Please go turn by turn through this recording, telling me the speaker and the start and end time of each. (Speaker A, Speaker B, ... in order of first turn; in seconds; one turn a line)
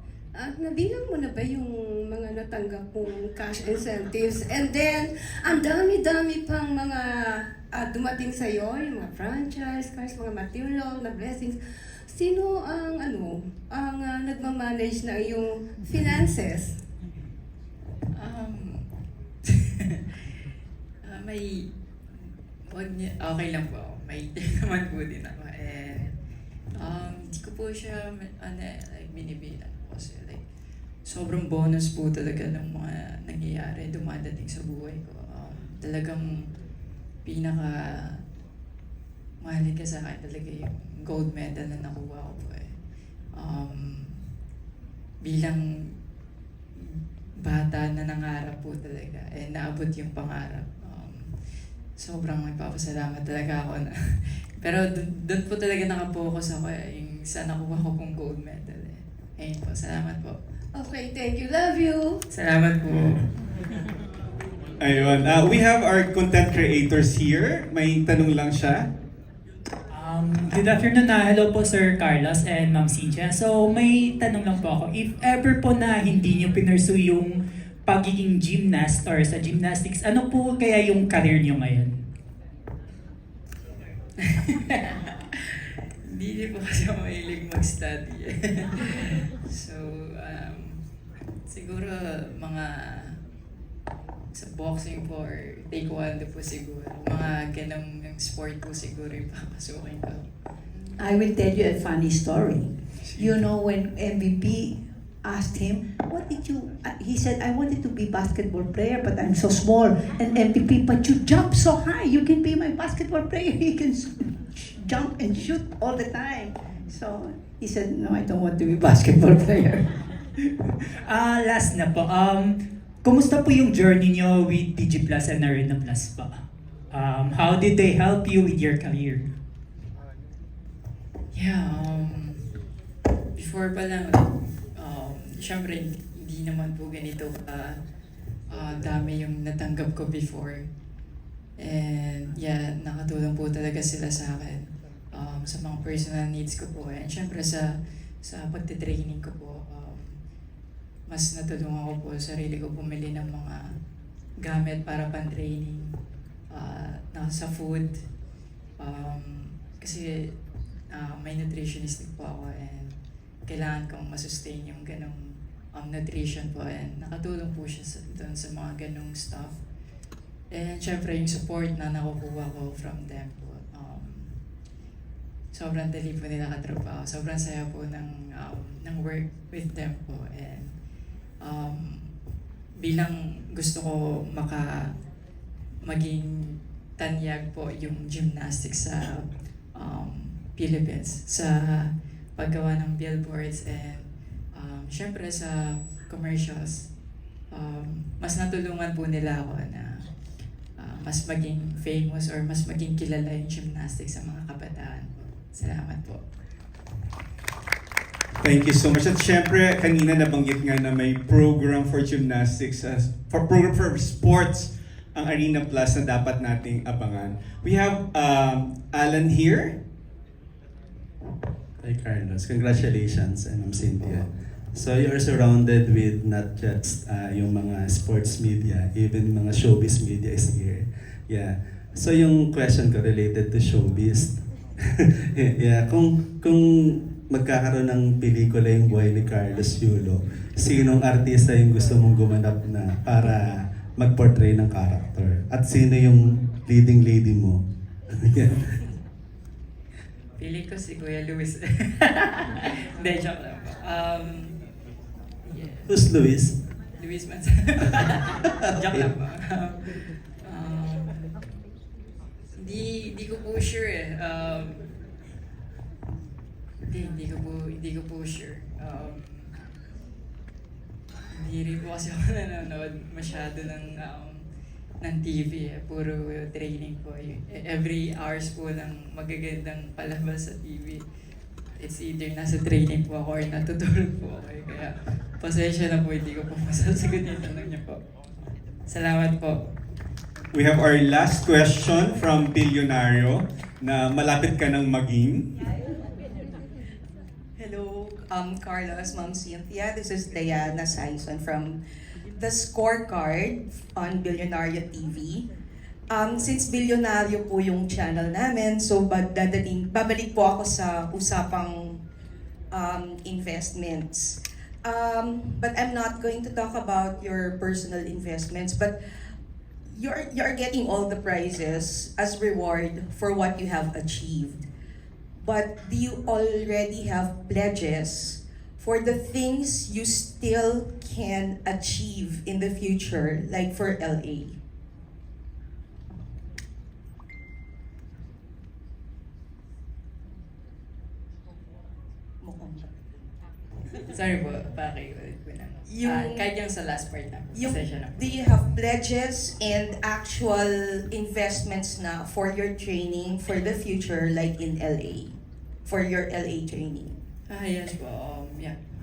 Speaker A: 0.3-16.8
Speaker B: 18.1-18.9
Speaker B: 21.0-21.7
Speaker B: 22.2-26.1
Speaker B: 26.7-30.4
Speaker B: 31.0-36.3
Speaker B: 37.2-38.2
Speaker B: 39.4-42.7
Speaker B: 43.3-44.2
Speaker B: 45.2-45.6
Speaker B: 46.9-60.4
Speaker A: 60.7-62.2
Speaker B: 62.3-63.3
Speaker C: 64.8-68.9
Speaker D: 69.9-82.0
Speaker B: 84.3-85.0
Speaker B: 86.0-90.8
Speaker B: 91.5-93.1
Speaker B: 94.3-100.3
Speaker E: 101.0-119.8
Speaker D: 121.0-129.2
Speaker B: 131.3-132.5
Speaker B: 133.3-137.8
Speaker B: 138.5-140.7
Speaker B: 141.6-150.2
Speaker B: 151.1-153.7
Speaker B: 154.4-155.9
Speaker B: 156.5-158.0
Speaker B: 158.8-160.3
Speaker B: 160.9-169.6
Speaker B: 170.5-174.4
Speaker B: 175.5-180.7
Speaker B: 181.4-182.1
Speaker B: 182.8-184.9
Speaker B: 185.8-189.2
Speaker B: 189.7-196.9
Speaker B: 197.5-200.1
Speaker B: 200.8-206.2
Speaker C: 208.4-219.8
Speaker F: 221.8-234.4
Speaker F: 234.9-247.6
Speaker F: 248.2-248.7
Speaker B: 250.4-254.6
Speaker B: 255.4-255.9
Speaker F: 255.9-256.5
Speaker B: 257.0-261.3
Speaker B: 262.6-264.9
Speaker B: 266.9-269.6
Speaker B: 271.3-274.4
Speaker B: 275.0-281.0
Speaker B: 281.8-288.0
Speaker B: 288.9-289.6
Speaker C: 290.5-295.4
Speaker G: 297.6-301.8
Speaker G: 302.4-305.4
Speaker G: 306.1-312.0
Speaker G: 312.7-318.9
Speaker G: 319.9-324.6
Speaker G: 325.3-334.6
Speaker B: 344.1-348.4
Speaker G: 345.9-346.4
Speaker G: 347.5-357.2
Speaker B: 357.5-358.8